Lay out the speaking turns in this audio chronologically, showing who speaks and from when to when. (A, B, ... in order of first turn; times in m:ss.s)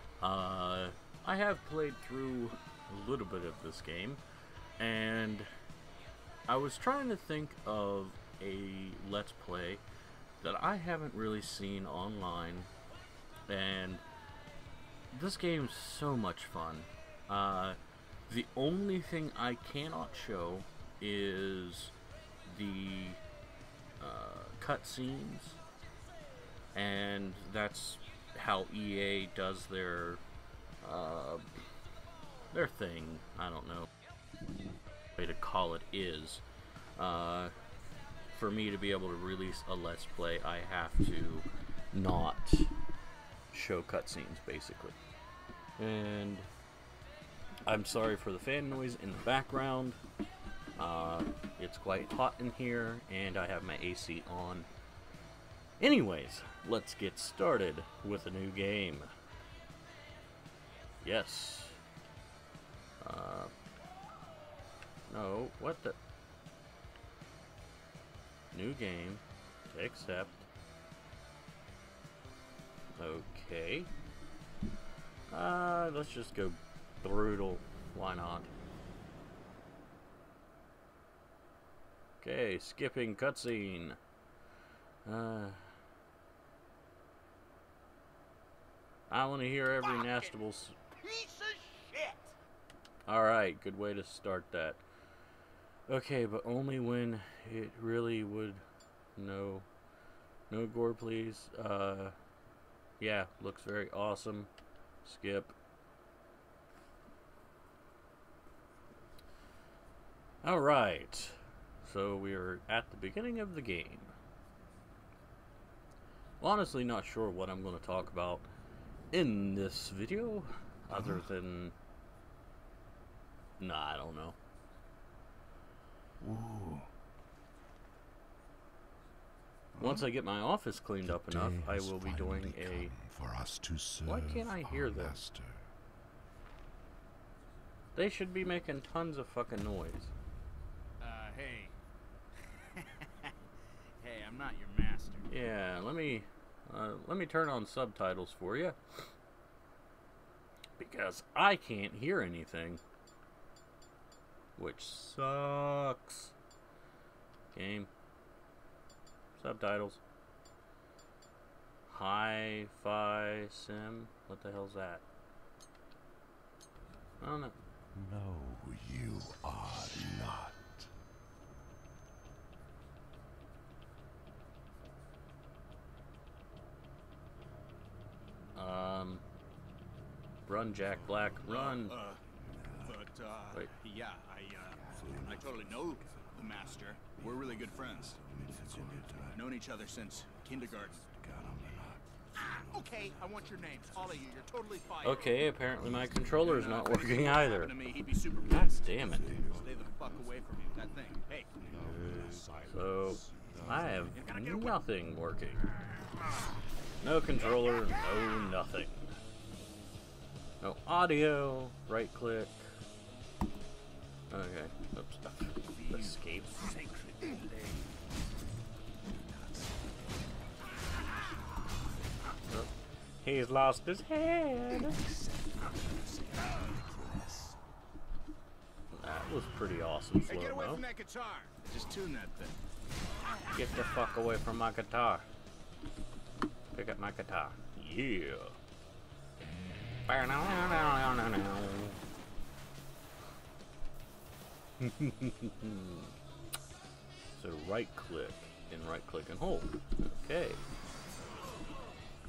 0:00.2-0:04.2 A
0:04.8-0:05.5 A
0:06.5-0:09.8 A
0:10.4-0:12.7 A
0:13.5-0:14.0 A
0:15.1-0:17.8 A
0:18.3-0:21.9 A
0:22.4-0:23.2 A
0:24.0-0:25.6 A
0:26.7-0:30.2 A
0:30.8-0:31.6 A
0:32.5-0:33.9 A
0:35.1-0:36.4 A
0:37.0-0:37.5 A
0:38.3-0:42.7 A
0:43.5-0:45.0 A
0:45.8-0:46.5 A
0:47.6-0:50.0 A
0:50.8-0:54.7 A
0:55.8-0:59.1 A
1:01.0-1:01.8 A
1:03.0-1:03.5 A
1:05.1-1:06.0 A
1:08.5-1:10.5 A
1:13.0-1:13.9 A
1:15.3-1:18.5 A
1:22.2-1:24.0 A
1:25.0-1:25.6 A
1:29.1-1:30.7 A
1:29.8-1:30.3 B
1:31.0-1:32.4 B
1:33.1-1:34.8 A
1:35.9-1:38.6 A
1:39.2-1:39.7 A
1:40.5-1:42.1 A
1:43.0-1:44.5 A
1:45.0-1:45.5 A
1:50.4-1:54.1 A
1:56.4-1:58.5 A
1:59.1-2:01.7 A
2:00.9-2:01.2 C
2:03.6-2:04.4 A
2:06.2-2:06.9 C
2:09.8-2:12.9 A
2:09.8-2:10.0 C
2:11.0-2:15.7 C
2:14.0-2:15.2 A
2:17.9-2:20.1 A
2:21.0-2:21.7 B
2:22.6-2:23.3 B
2:24.0-2:25.3 B
2:25.3-2:29.1 A
2:30.8-2:32.8 A
2:34.6-2:36.3 A
2:37.5-2:37.9 A
2:39.4-2:40.0 A
2:41.9-2:45.0 A
2:47.2-2:47.6 A
2:47.9-2:50.9 C
2:58.6-2:59.2 A
3:00.4-3:02.0 A
3:01.3-3:02.2 B
3:02.5-3:02.9 C
3:02.8-3:08.2 B
3:04.8-3:06.4 C
3:07.2-3:09.5 C
3:09.3-3:11.0 B
3:10.6-3:13.1 C
3:12.7-3:15.5 B
3:15.0-3:17.7 A
3:15.8-3:16.4 C
3:16.4-3:21.6 B
3:18.4-3:19.4 A
3:19.0-3:19.7 C
3:21.6-3:24.1 C
3:22.6-3:25.6 A
3:24.1-3:24.8 B
3:27.0-3:29.1 A
3:30.6-3:32.6 A
3:34.3-3:36.6 A
3:36.7-3:37.9 C
3:39.1-3:40.0 C
3:41.0-3:42.3 C
3:43.2-3:45.0 A
3:44.8-3:47.6 C
3:48.9-3:50.8 A
3:50.2-3:52.6 B
3:53.5-3:55.3 A
3:56.7-3:58.5 A
4:00.1-4:02.0 A
4:04.8-4:06.1 A
4:07.4-4:10.6 A